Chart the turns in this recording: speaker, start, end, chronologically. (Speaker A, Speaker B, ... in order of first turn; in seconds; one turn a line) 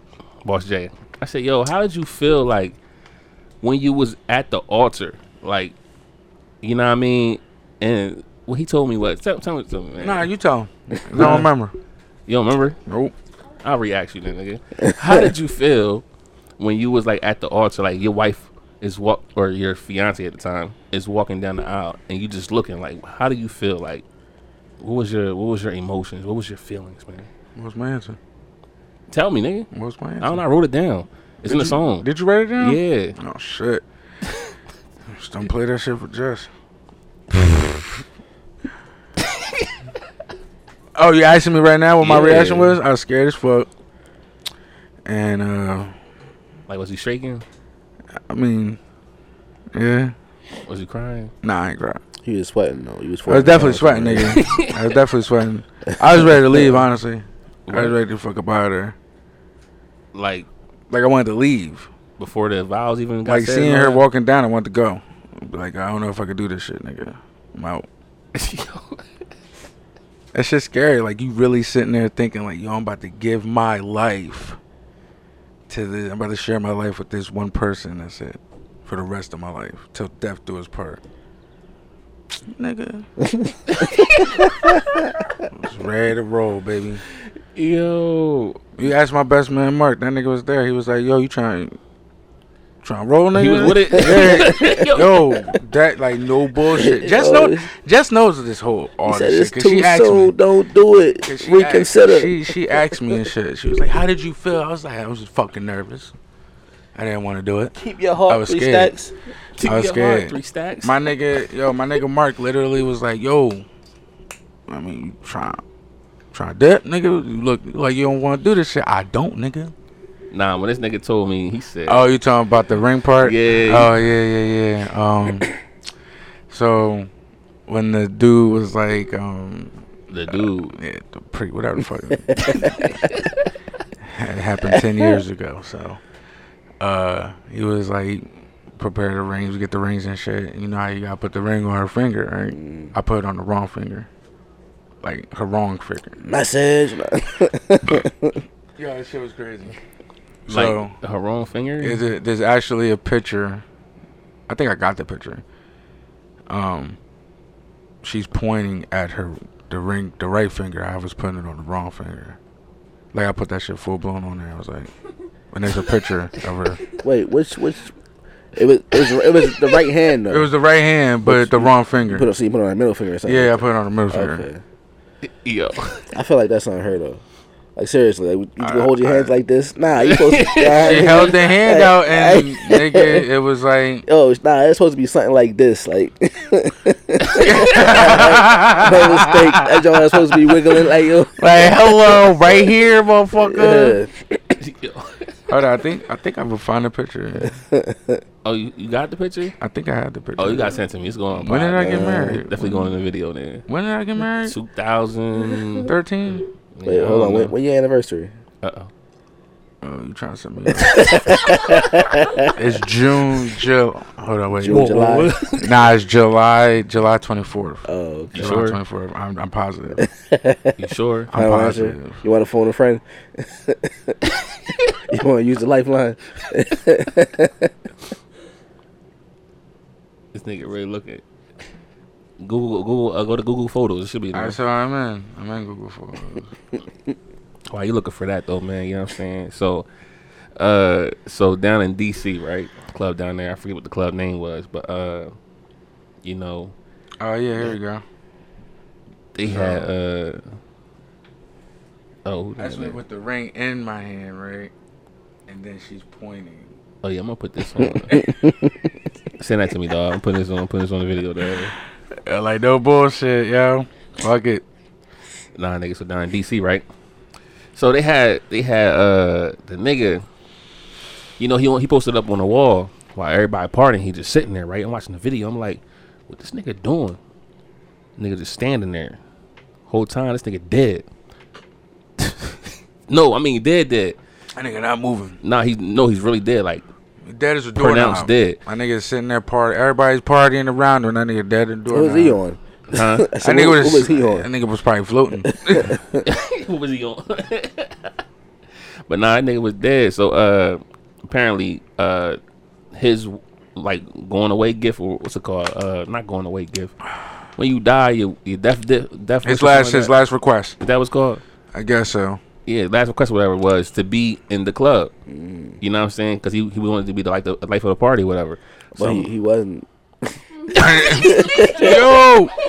Speaker A: 0.4-2.8
Speaker A: 3.6-5.8
Speaker A: 6.6-10.3
Speaker B: 10.0-11.7
Speaker A: 11.2-11.5
Speaker A: 12.3-12.8
Speaker B: 12.9-13.1
Speaker A: 13.6-16.0
Speaker C: 14.8-15.3
Speaker A: 16.6-24.0
Speaker A: 24.8-27.3
Speaker B: 27.6-28.2
Speaker A: 29.1-29.7
Speaker B: 29.7-30.4
Speaker A: 30.2-33.1
Speaker B: 31.5-33.8
Speaker B: 35.1-36.5
Speaker B: 37.3-37.8
Speaker B: 41.0-43.7
Speaker A: 42.0-42.7
Speaker C: 42.1-42.6
Speaker B: 45.1-45.9
Speaker A: 46.7-47.4
Speaker B: 48.3-48.8
Speaker B: 49.7-50.1
Speaker A: 50.7-51.3
Speaker B: 51.4-52.0
Speaker C: 52.2-54.4
Speaker B: 53.3-59.0
Speaker C: 56.2-56.8
Speaker A: 57.7-58.0
Speaker A: 60.1-60.5
Speaker B: 60.9-61.9
Speaker A: 62.2-64.0
Speaker B: 63.3-67.9
Speaker A: 68.3-69.0
Speaker B: 70.3-74.6
Speaker B: 75.7-81.0
Speaker B: 82.5-83.1
Speaker C: 83.2-85.0
Speaker A: 83.8-84.2
Speaker B: 85.5-87.0
Speaker A: 87.5-88.8
Speaker B: 88.8-91.8
Speaker B: 92.8-100.3
Speaker A: 93.3-95.5
Speaker C: 94.0-94.7
Speaker C: 96.8-97.7
Speaker C: 99.1-103.2
Speaker B: 101.2-106.2
Speaker B: 107.0-107.8
Speaker C: 107.8-109.1
Speaker B: 108.3-108.9
Speaker A: 109.6-111.0
Speaker B: 109.6-113.7
Speaker B: 114.7-115.6
Speaker B: 116.3-119.7
Speaker A: 120.3-122.1
Speaker B: 121.9-125.5
Speaker A: 123.2-123.9
Speaker B: 126.5-127.1
Speaker B: 127.7-132.6
Speaker A: 130.1-130.8
Speaker C: 132.3-133.1
Speaker B: 134.0-136.0
Speaker C: 134.7-135.2
Speaker B: 136.8-144.1
Speaker C: 142.5-142.9
Speaker B: 145.0-146.2
Speaker C: 146.2-148.4
Speaker B: 148.8-149.8
Speaker B: 150.5-150.9
Speaker A: 150.5-152.0
Speaker B: 151.8-153.6
Speaker B: 154.5-155.4
Speaker B: 156.5-157.0
Speaker B: 158.0-162.4
Speaker B: 163.1-164.9
Speaker B: 165.5-166.8
Speaker C: 167.0-167.9
Speaker C: 168.6-170.5
Speaker B: 170.3-172.3
Speaker C: 171.2-174.6
Speaker B: 173.2-174.5
Speaker A: 175.2-176.1
Speaker C: 176.1-177.2
Speaker C: 177.8-183.2
Speaker B: 178.6-179.3
Speaker A: 180.0-181.4
Speaker B: 180.8-184.1
Speaker C: 184.1-192.6
Speaker A: 187.4-187.9
Speaker B: 187.4-190.0
Speaker B: 191.4-194.0
Speaker C: 193.4-194.1
Speaker A: 194.6-195.3
Speaker B: 195.5-197.5
Speaker C: 197.4-198.2
Speaker A: 198.4-199.6
Speaker B: 199.6-200.8
Speaker A: 200.4-203.7
Speaker B: 201.3-202.9
Speaker C: 201.8-202.4
Speaker B: 203.7-204.6
Speaker A: 204.4-205.9
Speaker B: 205.8-206.5
Speaker A: 206.8-207.5
Speaker C: 206.8-208.3
Speaker A: 208.6-208.9
Speaker B: 209.8-211.2
Speaker C: 210.7-212.5
Speaker B: 212.6-220.0
Speaker C: 214.6-215.3
Speaker A: 214.7-215.7
Speaker C: 217.9-218.4
Speaker A: 218.3-218.8
Speaker C: 220.0-220.7
Speaker A: 220.8-221.3
Speaker B: 221.3-222.2
Speaker C: 221.3-224.2
Speaker C: 225.1-227.7
Speaker A: 230.3-231.2
Speaker A: 232.4-234.6
Speaker B: 234.3-236.5
Speaker A: 237.7-239.9
Speaker A: 240.6-245.3
Speaker A: 246.2-246.7
Speaker B: 247.2-248.0
Speaker A: 249.3-250.4
Speaker B: 249.4-249.9
Speaker A: 252.2-253.0
Speaker B: 252.6-254.7
Speaker B: 255.5-256.7
Speaker A: 257.0-258.2
Speaker C: 258.1-258.8
Speaker A: 259.4-261.7
Speaker B: 262.3-264.6
Speaker A: 265.6-266.9
Speaker A: 267.7-270.2
Speaker A: 271.4-277.2
Speaker A: 278.2-279.2
Speaker A: 279.9-281.1
Speaker A: 282.2-282.6
Speaker A: 283.1-284.2
Speaker B: 284.6-285.4
Speaker A: 285.4-286.9
Speaker B: 287.2-292.4
Speaker A: 287.8-288.6
Speaker C: 291.9-294.5
Speaker A: 292.9-293.3
Speaker B: 293.4-296.0
Speaker C: 295.5-296.2
Speaker A: 296.2-298.1
Speaker A: 299.1-302.4
Speaker A: 302.9-306.9
Speaker A: 307.6-310.1
Speaker B: 309.4-310.8
Speaker A: 310.8-311.4
Speaker B: 311.7-312.4
Speaker A: 312.7-315.1
Speaker C: 315.3-315.8
Speaker A: 315.8-319.3
Speaker C: 319.0-319.9
Speaker B: 320.7-322.5
Speaker C: 321.0-322.1